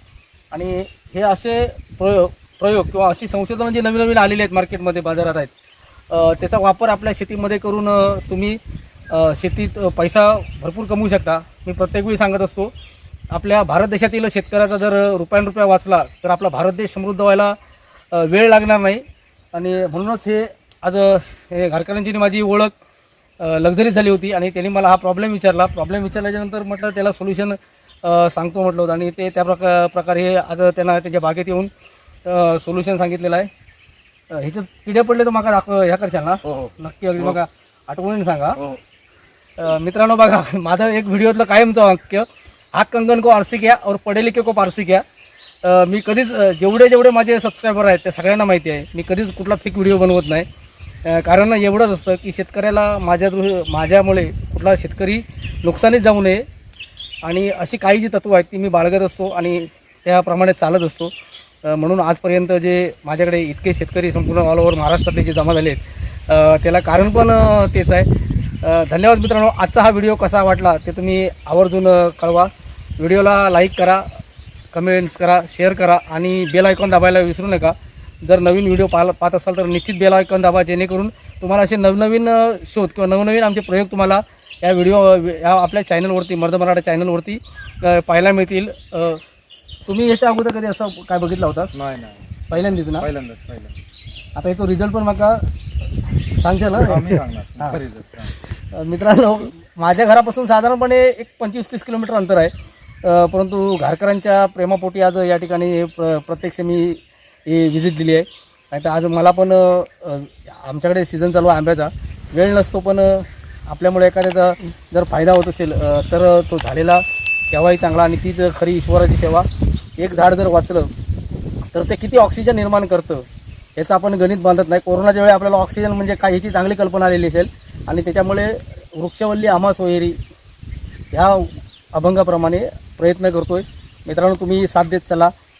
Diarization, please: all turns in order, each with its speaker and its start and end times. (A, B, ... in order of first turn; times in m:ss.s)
0:00.5-0:05.5 A
0:06.1-0:08.6 A
0:09.1-0:12.7 A
0:13.3-0:17.6 A
0:18.1-0:22.7 A
0:23.4-0:31.7 A
0:32.2-0:33.5 A
0:34.3-0:38.6 A
0:36.4-0:37.4 B
0:39.6-0:45.0 A
0:45.6-0:50.4 A
0:51.0-0:56.4 A
0:57.2-1:01.1 A
1:01.6-1:08.1 A
1:08.6-1:14.2 A
1:14.7-1:29.2 A
1:29.9-1:31.8 A
1:31.7-1:33.8 B
1:32.5-1:33.1 A
1:34.4-1:35.5 A
1:36.3-1:37.8 A
1:36.8-1:38.3 B
1:38.6-1:59.5 A
2:00.0-2:00.9 A
2:01.7-2:10.2 A
2:11.1-2:15.3 A